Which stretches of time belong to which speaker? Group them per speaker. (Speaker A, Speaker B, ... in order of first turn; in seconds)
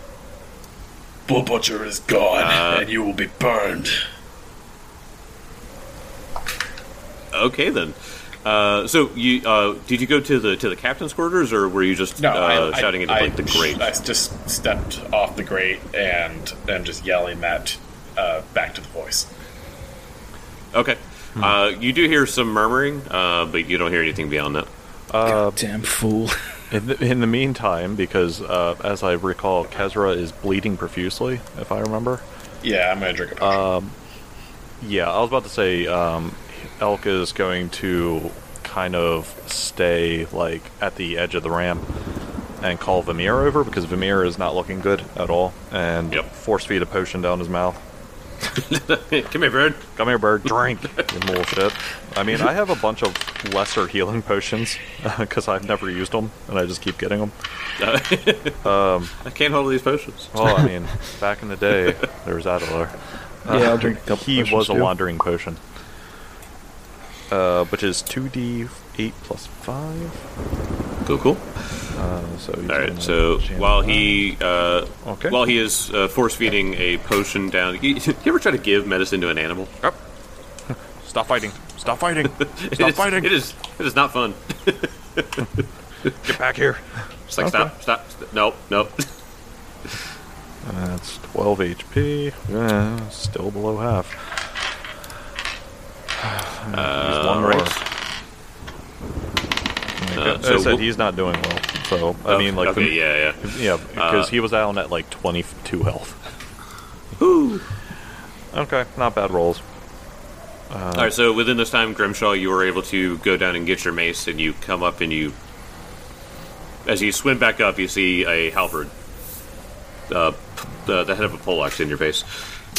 Speaker A: 1.3-4.0, 12.2-19.3, 32.6-33.6
Speaker B: 2.4-2.9, 7.3-13.9, 20.7-24.7, 48.5-49.9, 57.8-58.6, 59.2-60.5, 71.0-71.9, 72.7-79.9, 82.3-86.3, 87.3-89.0, 96.7-97.8, 100.2-100.8, 102.3-104.3, 107.2-107.7, 110.9-115.3, 116.8-118.9, 120.1-122.2
Speaker C: 25.1-25.6, 26.7-32.2, 33.4-33.9, 34.8-41.9, 42.6-47.8, 50.0-57.3, 58.6-59.1, 60.3-65.6, 67.3-70.2, 71.9-74.2, 75.0-75.4, 80.7-83.3, 86.2-86.8, 87.4-87.7, 90.6-94.4, 96.2-97.8, 100.0-106.2, 108.5-109.6, 110.7-111.1
Speaker D: 25.2-26.4, 63.5-64.9